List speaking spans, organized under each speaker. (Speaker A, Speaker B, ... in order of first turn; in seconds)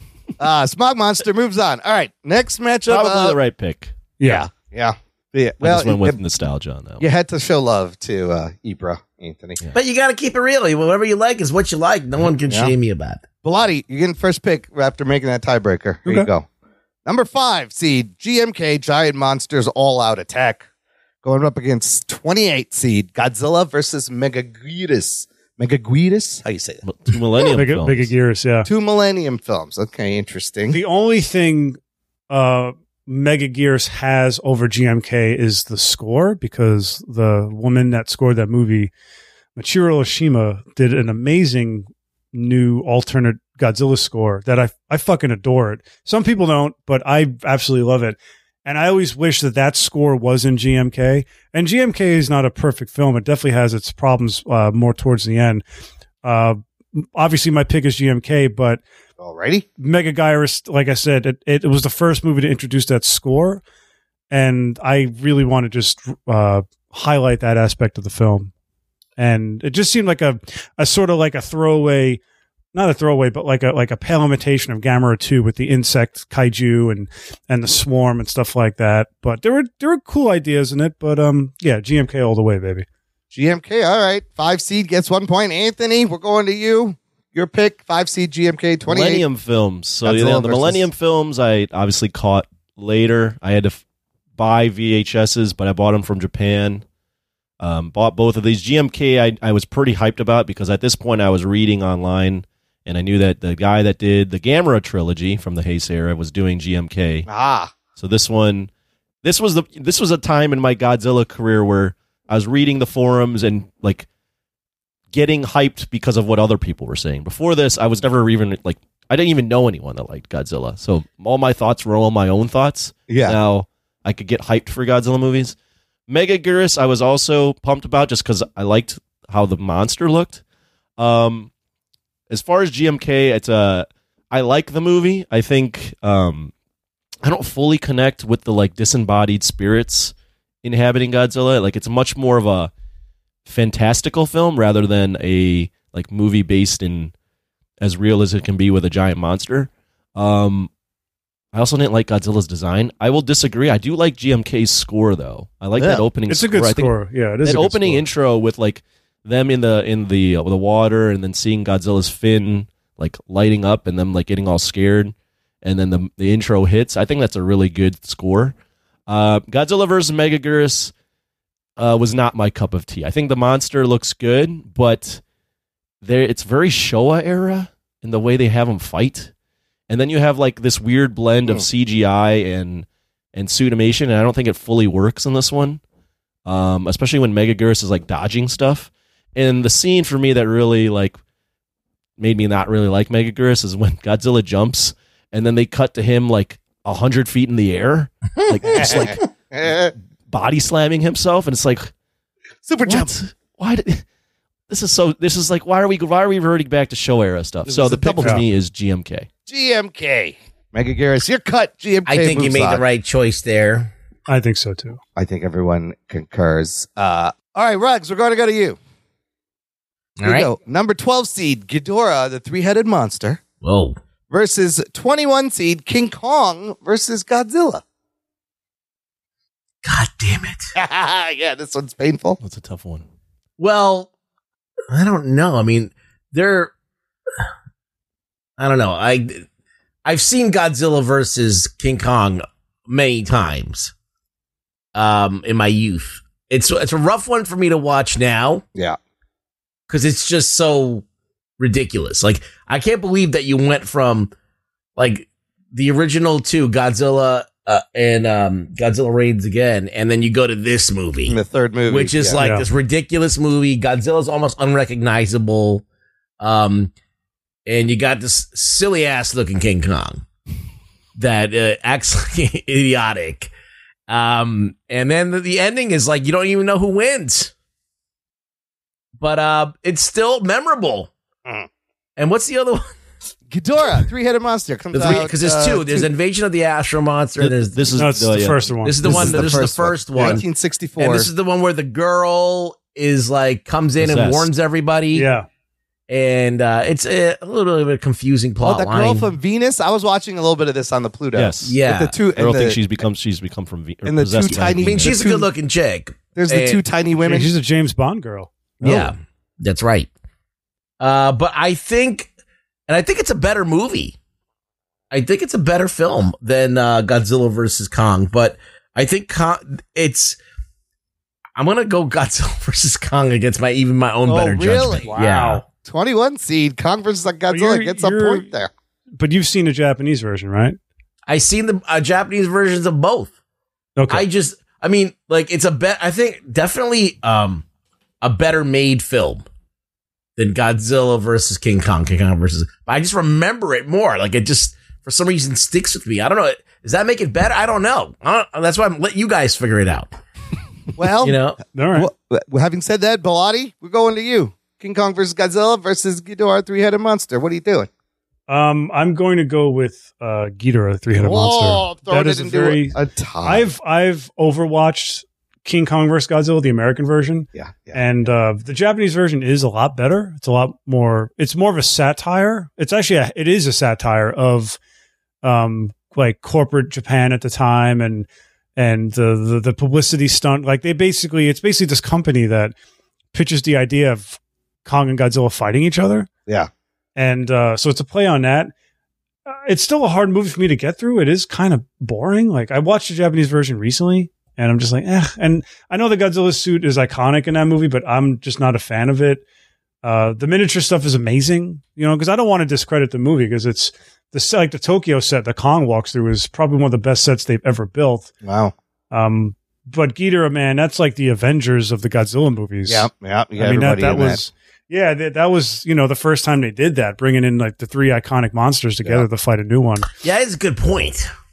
Speaker A: 0.4-3.4, 4.2-6.2, 7.0-9.6, 12.5-12.7, 13.4-16.5, 17.1-20.6, 21.2-26.8, 28.6-30.8, 59.2-59.7, 83.3-89.2, 90.0-90.8, 107.3-107.7, 123.1-123.4, 155.8-156.0, 198.7-199.9, 202.7-203.1, 207.7-208.4, 209.5-212.8, 215.2-218.8, 220.2-223.4, 224.3-227.8, 230.8-232.4, 261.3-262.4, 283.5-286.1, 289.0-291.3, 298.6-302.8, 304.1-305.5, 306.4-307.5, 308.8-309.1, 324.3-325.1, 325.8-328.7, 351.0-351.4, 351.9-357.9, 361.2-363.7, 367.5-368.1, 408.4-408.7, 412.9-414.4
Speaker B: 2.9-4.0, 5.6-7.0, 26.8-28.1, 88.9-93.8, 94.4-96.8, 97.6-107.3, 108.0-108.7, 109.2-114.1, 115.1-125.6, 126.1-130.4, 131.0-131.5, 132.3-136.5, 137.2-142.7, 143.5-147.1, 147.8-150.7, 151.5-168.6, 169.1-170.9, 171.8-175.2, 176.0-179.3, 179.9-185.8, 186.5-191.2, 192.2-199.8, 200.3-201.9, 202.8-204.0, 204.7-209.3, 232.4-233.1, 287.4-289.6, 294.0-294.5, 301.3-301.8, 302.3-305.2
Speaker C: 4.2-4.5, 27.6-28.7, 30.7-31.8, 32.3-38.9, 39.6-55.6, 56.2-58.8, 59.8-63.6, 64.3-68.5, 69.2-72.2, 72.7-82.9, 156.3-158.1, 214.3-215.0, 262.4-262.7, 288.0-289.1, 295.1-295.5, 307.2-308.5, 325.1-325.6, 327.5-328.5, 329.2-330.8, 334.0-334.3, 351.7-352.1, 358.5-374.8, 375.4-382.8, 383.3-386.3, 387.2-388.7, 389.5-399.4, 400.0-408.3, 409.1-420.1
Speaker D: 9.7-13.2, 198.4-199.1, 212.1-213.9, 220.2-220.5, 223.6-224.0, 229.8-230.7, 233.6-234.1, 234.9-236.7, 238.6-239.4, 240.1-243.9, 244.9-248.6, 249.9-251.0, 251.6-254.3, 255.0-261.4, 261.9-265.8, 266.4-266.9, 267.7-270.2, 271.2-273.5, 274.1-277.5, 279.2-281.1, 282.2-282.9, 284.9-288.0, 288.8-290.4, 291.0-295.3, 296.1-299.3, 301.6-302.2, 304.7-306.8, 308.8-310.1, 311.0-312.3, 312.9-314.1, 315.1-320.4, 321.6-325.6, 331.3-333.3, 334.1-337.6, 338.2-339.4, 340.4-350.1, 351.2-351.6, 420.2-421.3